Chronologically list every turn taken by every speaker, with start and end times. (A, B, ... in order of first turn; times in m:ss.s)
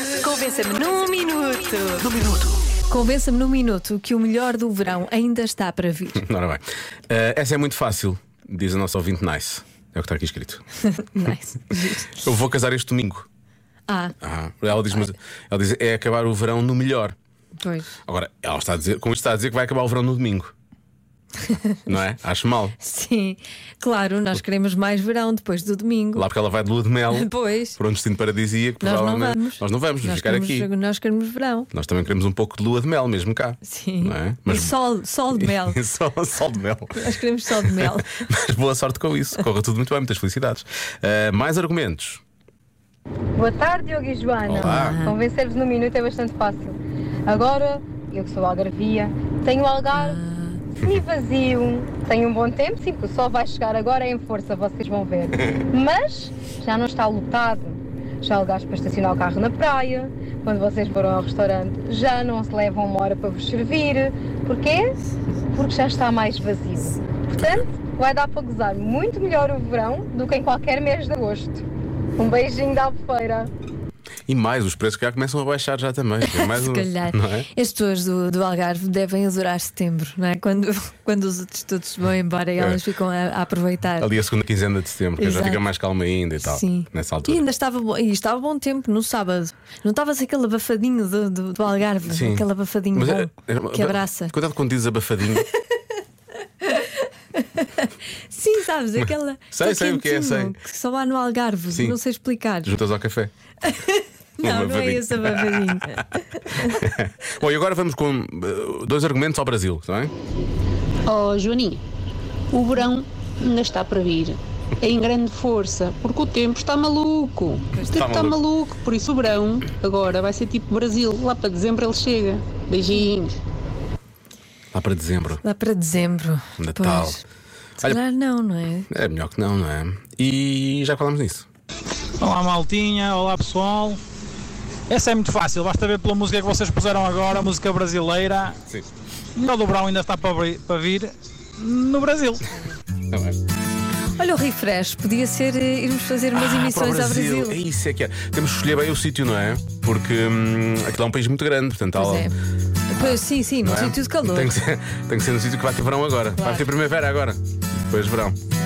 0:00.1-0:02.4 A
0:02.9-0:06.2 A
0:06.2-0:10.6 B
0:10.9-0:12.3 A
0:11.2-0:13.3 B
0:13.9-0:14.1 A
0:14.2-0:17.1 B
0:17.6-0:17.9 A
0:18.0-0:20.5 B
0:21.5-0:21.8 A
0:21.9-0:22.8 B
0:22.8-0:26.3 A
0:26.1-0:30.7 B
0:27.1-0:27.8 A
0:28.8-0:31.7 A
0:31.7-0:34.7 B
0:33.6-0:35.8 A
0:35.3-0:42.2 B
0:36.9-0:38.2 A
0:43.4-0:46.8 C
0:44.5-0:45.0 B
0:44.5-0:45.2 A
0:47.3-0:50.2 C
0:49.9-0:50.6 A
0:50.8-1:05.0 C
1:05.5-1:11.6 C
1:07.4-1:07.6 B
1:12.2-1:13.5 C
1:14.3-1:17.5 B
1:16.2-1:24.1 A
1:24.0-1:27.4 B
1:25.2-1:25.6 A
1:26.4-1:34.3 A
1:32.0-1:35.5 B
1:36.6-1:42.7 A
1:39.0-1:40.6 B
1:41.7-1:42.0 B
1:42.6-1:43.3 B
1:43.6-1:46.8 A
1:44.4-1:46.0 B
1:46.5-1:50.1 B
1:51.0-1:51.8 D
1:52.5-2:03.3 D
1:57.7-1:58.0 A
1:57.9-1:58.4 B
2:04.7-2:05.4 B
2:05.4-2:07.2 A
2:06.6-2:07.2 B
2:07.8-2:08.9 A
2:08.9-2:11.5 B
2:12.2-2:13.9 E
2:14.9-2:18.5 E
2:19.4-2:21.0 E
2:21.6-2:22.4 E
2:23.1-2:23.4 B
2:24.2-2:27.6 A
2:26.3-2:32.3 B
2:31.9-2:32.4 A
2:32.9-2:34.5 A
2:32.9-2:38.4 B
2:36.4-2:36.8 A